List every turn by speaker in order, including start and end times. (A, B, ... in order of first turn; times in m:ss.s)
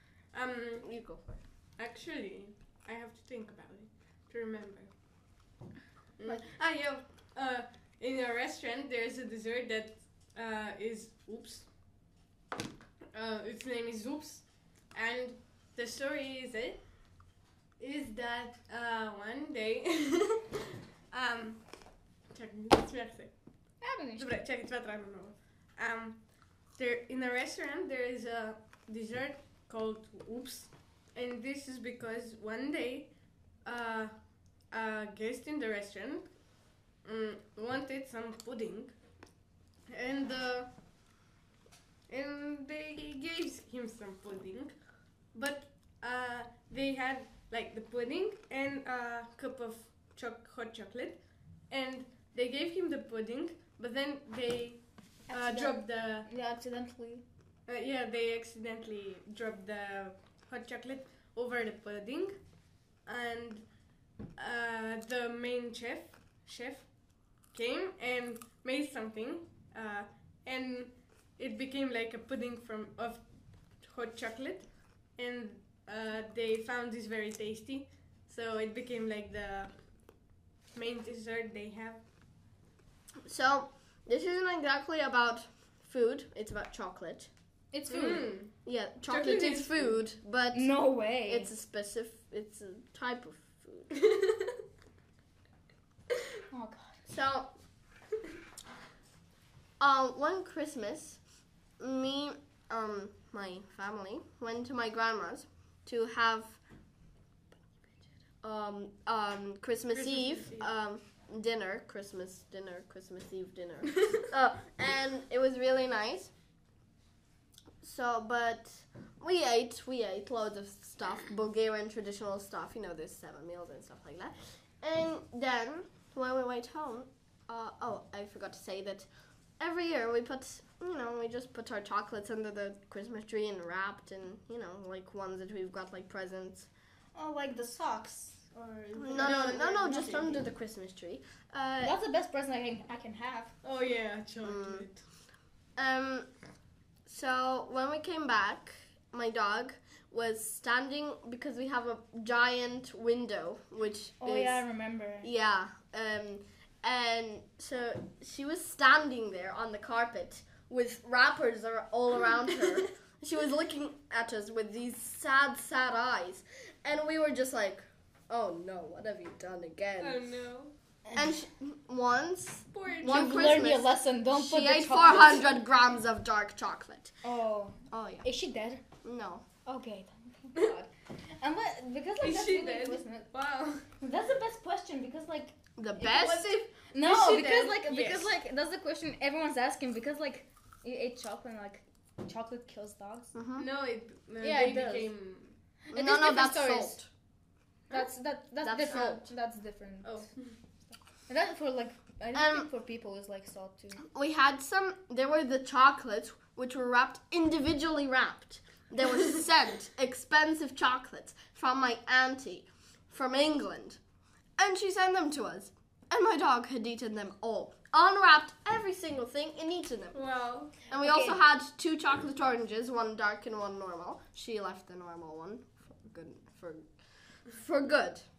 0:00.3-0:00.9 A
0:00.8-0:01.4 B
0:01.8-0:04.9 A
0:06.2-0:11.7 A
0:13.1-0:16.8 A
0:17.8-0:21.6 A
0:22.3-0:23.3 A
0:23.8-0:24.3 C
0:24.2-0:26.2 A
0:26.8-0:33.1 A
0:33.6-0:34.1 A
0:34.7-0:36.3 A
0:37.0-0:38.9 A
0:39.9-0:40.7 A
0:42.1-0:44.7 A
0:45.3-0:51.2 A
0:51.7-0:54.8 A
0:55.3-0:57.2 C
0:55.3-0:56.3 A
0:57.7-1:02.3 A
1:03.0-1:03.6 A
1:04.4-1:06.9 A
1:07.5-1:13.2 A
1:13.8-1:19.7 A
1:20.7-1:22.0 A
1:23.2-1:27.3 B
1:27.7-1:28.2 C
1:27.9-1:28.5 A
1:28.0-1:33.9 B
1:29.1-1:30.0 A
1:30.5-1:31.5 C
1:34.0-1:34.5 A
1:36.5-1:37.0 C
1:37.1-1:37.5 B
1:39.8-1:41.2 B
1:41.8-1:46.6 B
1:48.4-1:56.3 B
1:49.9-1:50.7 A
1:57.8-2:16.7 B
2:17.1-2:18.5 C
2:18.5-2:20.4 A
2:19.0-2:21.9 B
2:19.1-2:20.3 C
2:21.8-2:23.5 C
2:23.6-2:25.0 A
2:24.4-2:24.9 B
2:25.8-2:26.3 B
2:27.0-2:34.6 B
2:34.2-2:35.3 C
2:35.2-2:50.2 B
2:50.0-2:50.7 A
2:51.1-2:57.1 B
2:52.7-2:53.5 A
2:53.0-2:55.5 C
2:57.2-2:58.8 C
2:57.9-2:58.3 B
2:59.0-2:59.4 B
2:59.6-3:03.3 C
3:02.2-3:03.9 A
3:04.0-3:13.3 C
3:05.8-3:06.7 B
3:07.0-3:08.3 A
3:13.3-3:13.7 B
3:13.6-3:15.6 A
3:14.4-3:15.1 C
3:15.9-3:17.0 C
3:15.9-3:17.1 B
3:17.9-3:20.3 C
3:18.6-3:19.2 B
3:20.0-3:20.5 A
3:21.3-3:24.0 C
3:22.3-3:22.7 B
3:24.0-3:34.0 B
3:34.6-3:40.2 B
3:40.1-3:40.7 A
3:40.9-3:48.2 B
3:41.0-3:41.4 C